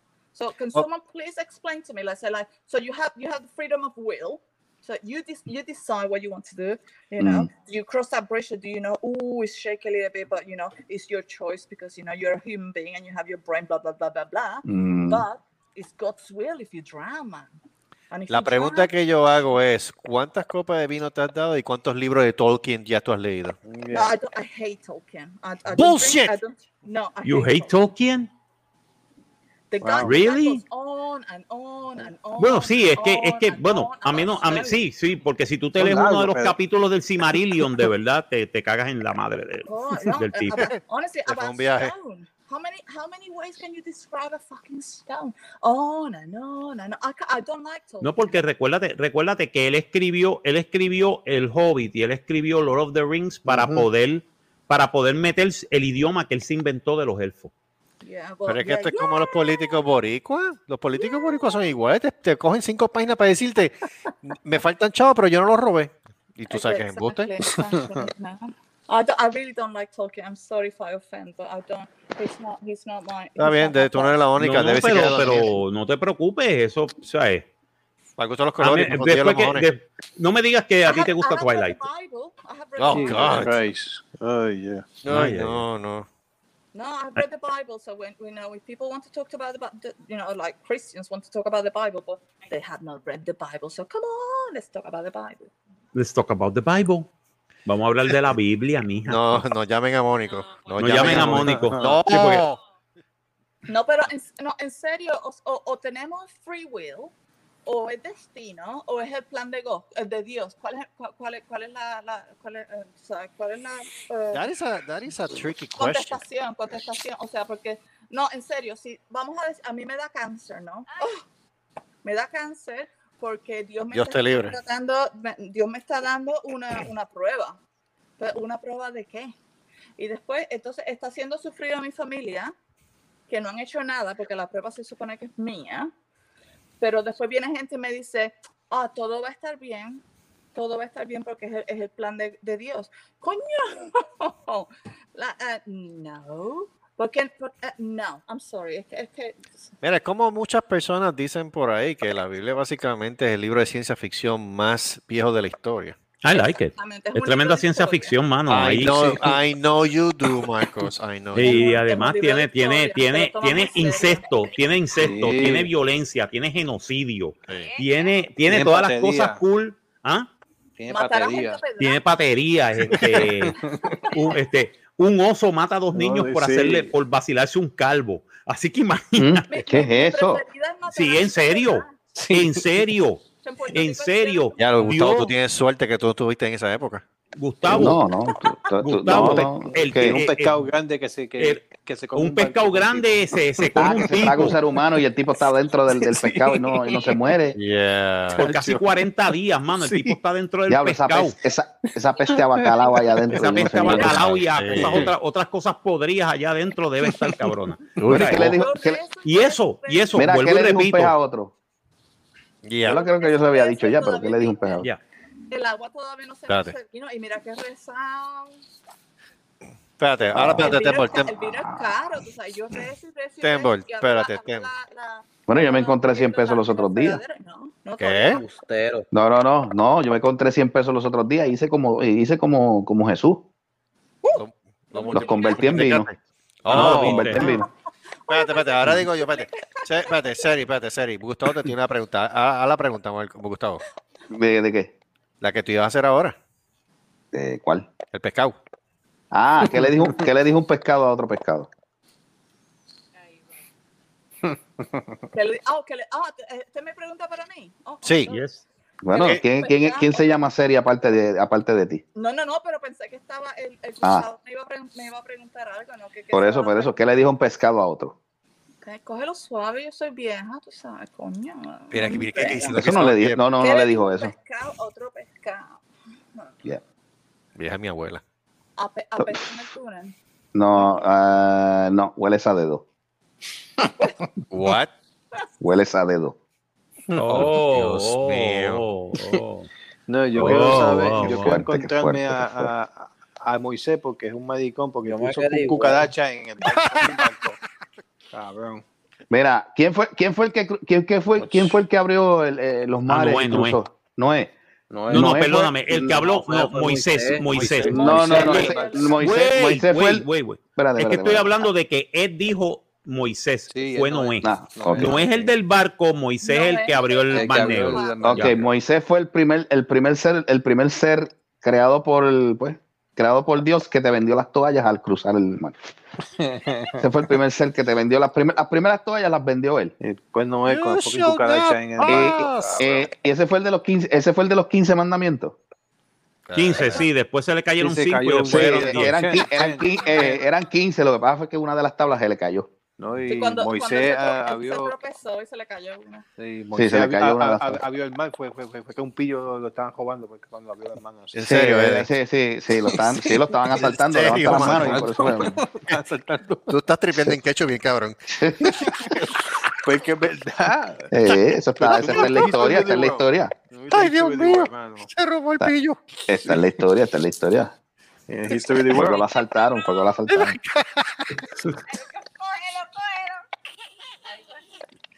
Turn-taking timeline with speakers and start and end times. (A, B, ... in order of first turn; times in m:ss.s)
0:00.3-0:17.5 A
0:07.2-0:07.5 B
0:14.6-0:15.2 B
0:18.1-0:18.9 A
0:18.3-0:23.6 C
0:23.6-0:24.1 D
0:23.9-0:27.8 A
0:25.7-0:26.4 C
0:27.2-0:28.3 E
0:29.7-0:34.8 A
0:29.8-0:30.2 D
0:30.0-0:30.6 E
0:32.4-0:40.6 E
0:35.8-0:36.6 D
0:39.7-0:48.4 A
0:40.5-0:41.9 C
0:48.0-0:57.5 E
0:53.5-0:53.8 D
0:58.0-0:59.8 A
0:58.5-1:07.3 C
1:00.9-1:01.7 A
1:06.5-1:14.2 A
1:07.5-1:08.1 D
1:13.4-1:15.6 C
1:14.4-1:17.4 E
1:18.2-1:19.7 C
1:18.6-1:21.8 E
1:20.9-1:23.6 A
1:22.8-1:23.6 C
1:22.9-1:24.8 D
1:25.0-1:26.1 C
1:25.1-1:25.6 E
1:26.7-1:35.5 A
1:35.9-1:37.1 E
1:37.7-1:39.3 E
1:39.0-1:42.6 C
1:40.2-1:40.9 F
1:40.8-1:42.5 E
1:41.0-1:42.0 D
1:42.4-1:42.7 F
1:43.7-1:47.1 A
1:47.6-1:54.5 A
1:54.3-1:56.2 C
1:55.8-2:01.2 A
2:00.9-2:01.2 F
2:02.0-2:07.6 A
2:03.9-2:04.6 C
2:08.2-2:09.3 A
2:10.0-2:12.5 A
2:13.3-2:15.9 A
2:16.8-2:20.0 A
2:20.5-2:29.7 A
2:29.8-2:36.0 C
2:36.2-2:39.2 E
2:36.4-2:38.2 A
2:38.5-2:41.7 C
2:41.3-2:50.3 E
2:41.4-2:44.3 A
2:44.9-2:45.7 D
2:47.5-2:48.3 F
2:48.4-2:49.4 D
2:50.8-2:51.6 D
2:50.9-2:52.0 A
2:51.8-2:53.6 E
2:53.0-2:54.0 D
2:54.1-2:59.5 E
2:55.9-2:56.9 D
2:59.2-3:00.4 B
2:59.5-3:02.1 A
3:00.9-3:05.3 E
3:02.1-3:02.6 D
3:03.4-3:05.0 A
3:04.6-3:07.0 C
3:07.4-3:08.0 E
3:07.6-3:10.2 B
3:08.8-3:10.7 E
3:09.1-3:14.6 D
3:11.4-3:11.6 E
3:12.2-3:14.6 E
3:13.8-3:17.6 B
3:15.9-3:17.4 D
3:17.5-3:18.4 C
3:18.4-3:19.0 D
3:18.4-3:21.4 E
3:19.7-3:20.2 D
3:20.7-3:25.0 B
3:22.2-3:24.1 D
3:23.4-3:28.6 E
3:23.9-3:25.2 C
3:24.8-3:25.1 D
3:27.0-3:27.4 D
3:28.0-3:28.4 C
3:28.0-3:29.0 B
3:28.4-3:30.2 A
3:29.2-3:31.1 E
3:30.2-3:31.5 B
3:32.6-3:33.0 C
3:32.8-3:34.9 B
3:32.9-3:34.8 A
3:35.5-3:38.6 A
3:36.5-3:36.8 C
3:40.0-3:41.3 C
3:40.3-3:40.8 B
3:40.6-3:48.5 A
3:41.6-3:41.9 B
3:43.4-3:44.7 C
3:45.5-3:47.2 B
3:48.0-3:48.4 C
3:48.3-3:49.0 G
3:49.1-3:53.4 B
3:54.2-3:55.9 A
3:54.3-3:57.6 C
3:55.1-3:56.1 B
3:56.7-3:57.7 B
3:56.7-3:57.4 E
3:58.3-4:00.4 A
3:58.3-4:03.8 C
4:04.3-4:04.9 B
4:05.4-4:06.4 C
4:07.3-4:07.9 B
4:08.1-4:08.6 C
4:09.3-4:11.7 B
4:09.7-4:10.2 D
4:13.2-4:13.6 F
4:14.5-4:15.2 D
4:15.3-4:18.5 A
4:18.0-4:18.3 C
4:18.3-4:18.6 E
4:19.0-4:22.0 B
4:19.1-4:20.2 A
4:19.2-4:19.4 C
4:22.2-4:26.9 A
4:26.3-4:28.2 B
4:28.8-4:32.8 A
4:31.9-4:33.4 C
4:32.7-4:34.3 B
4:33.5-4:35.8 A
4:37.6-4:38.2 C
4:38.8-4:40.2 A
4:40.5-4:42.8 B
4:44.5-4:44.9 C
4:45.6-4:46.4 B
4:47.2-4:49.7 E
4:47.2-4:48.8 C
4:50.1-4:57.6 D
4:50.4-4:51.6 E
4:51.2-4:52.7 B
4:55.0-4:56.1 G
4:56.6-4:57.2 C
4:58.3-4:58.8 D
4:59.3-5:04.5 B
5:01.4-5:01.8 D
5:03.1-5:03.8 E
5:04.9-5:05.4 D
5:05.1-5:06.4 B
5:05.1-5:18.5 E
5:06.6-5:07.4 G
5:06.7-5:09.2 D
5:07.8-5:09.2 A
5:07.9-5:11.7 B
5:13.7-5:15.5 D
5:14.4-5:15.2 B
5:16.4-5:18.4 A
5:17.3-5:18.7 D
5:18.2-5:25.8 B
5:26.4-5:27.1 D
5:27.0-5:29.9 B
5:30.0-5:33.0 D
5:30.7-5:32.8 C
5:32.1-5:35.6 B
5:36.5-5:37.0 C
5:36.6-5:39.2 E
5:36.8-5:37.0 A
5:37.8-5:40.4 D
5:38.5-5:42.7 B
5:40.0-5:40.3 A
5:43.0-5:44.9 D
5:43.3-5:46.2 A
5:46.4-5:51.4 D
5:46.8-5:47.8 B
5:51.3-5:52.1 C
5:51.4-5:55.6 B
5:52.9-5:53.8 D
5:53.9-5:55.3 C
5:54.4-5:56.8 D
5:56.7-5:58.7 C
5:58.4-5:58.8 B
5:59.8-6:01.1 D
6:01.1-6:03.5 B
6:01.8-6:05.1 D
6:02.0-6:02.5 C
6:03.9-6:06.1 C
6:06.3-6:07.7 B
6:08.3-6:09.2 D
6:08.9-6:10.6 B
6:10.3-6:11.3 C
6:11.9-6:13.4 F
6:14.2-6:14.8 F